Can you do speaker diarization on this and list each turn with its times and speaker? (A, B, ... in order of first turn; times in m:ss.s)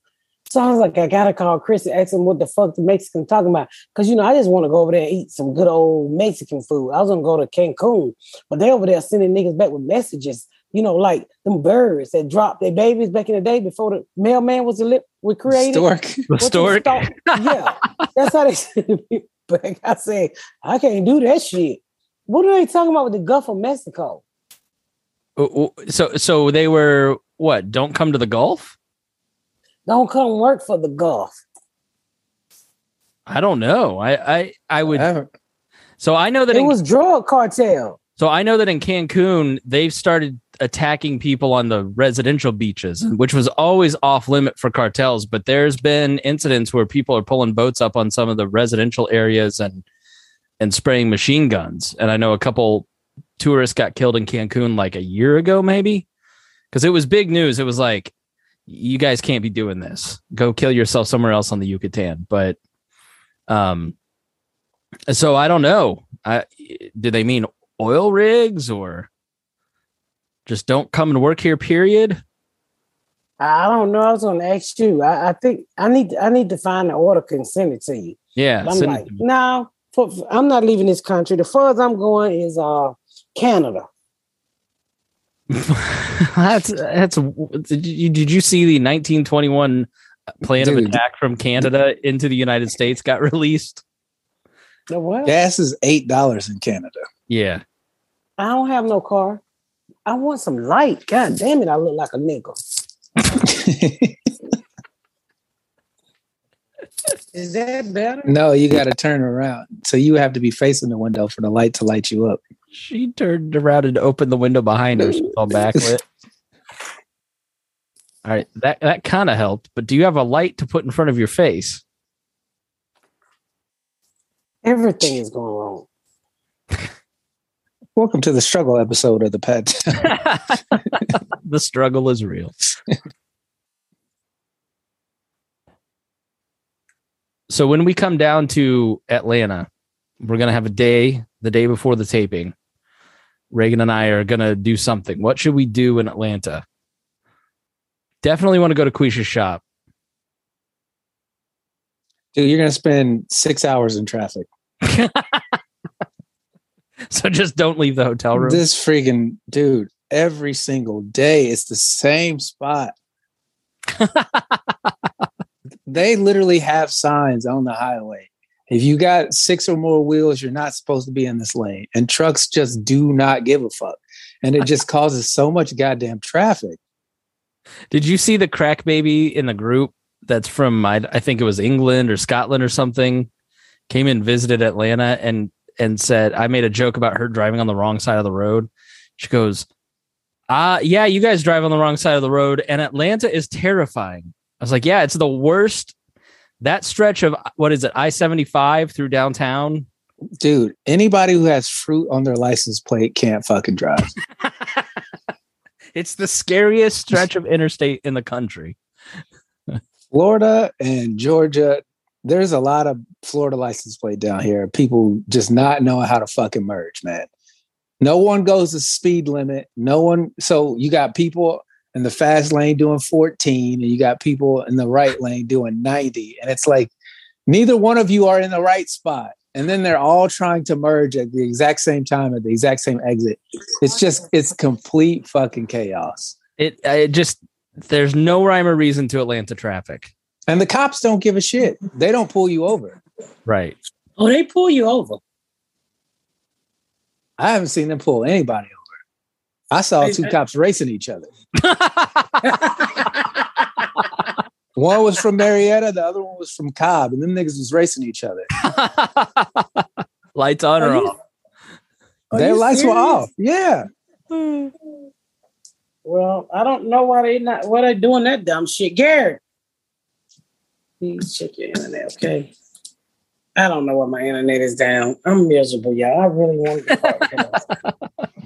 0:00.5-0:24.2 A
0:15.5-0:16.3 B
0:16.3-0:17.6 C
0:25.4-0:28.7 C
0:29.9-0:31.4 A
0:33.3-0:35.1 C
0:34.9-0:35.3 B
0:36.0-0:36.7 C
0:36.5-0:38.0 A
0:38.2-0:49.8 C
0:50.6-0:52.9 C
0:53.4-0:56.0 C
0:56.7-0:58.1 C
0:58.7-1:02.6 C
1:03.5-1:03.9 C
1:05.1-1:09.1 C
1:10.5-1:12.2 C
1:13.4-1:23.9 A
1:18.4-1:19.2 C
1:25.5-1:29.9 C
1:30.4-1:33.8 C
1:30.6-1:31.0 B
1:34.9-1:35.3 A
1:35.2-1:37.0 B
1:37.3-1:37.6 C
1:38.4-1:39.4 A
1:40.0-1:42.6 A
1:43.4-1:44.3 B
1:47.3-1:48.3 A
1:48.2-1:52.4 B
1:52.7-1:56.0 C
1:58.2-2:01.8 C
2:04.6-2:05.9 A
2:08.0-2:10.1 B
2:10.0-2:12.5 C
2:17.5-2:19.7 C
2:20.2-2:22.5 C
2:23.5-2:26.6 C
2:28.2-2:29.6 C
2:32.3-2:34.5 B
2:34.8-2:35.4 C
2:37.1-2:38.6 C
2:38.3-2:42.9 B
2:43.9-2:44.6 C
2:45.9-2:56.8 B
2:57.9-3:03.3 C
3:03.9-3:09.7 C
3:10.5-3:15.9 C
3:16.6-3:19.8 C
3:20.4-3:24.1 B
3:25.9-3:28.8 C
3:30.1-3:37.3 B
3:38.0-3:46.9 B
3:47.5-3:56.4 B
3:56.6-4:00.1 C
4:00.5-4:03.0 B
4:03.4-4:03.8 C
4:04.2-4:05.2 A
4:07.4-4:08.8 B
4:09.7-4:11.3 B
4:10.0-4:10.3 A
4:11.6-4:12.6 C
4:12.4-4:13.8 A
4:14.8-4:18.5 B
4:18.6-4:21.2 C
4:20.8-4:21.1 A
4:22.3-4:23.2 A
4:22.3-4:23.8 B
4:24.3-4:24.7 C
4:26.0-4:29.4 A
4:31.0-4:32.5 A
4:33.6-4:37.6 A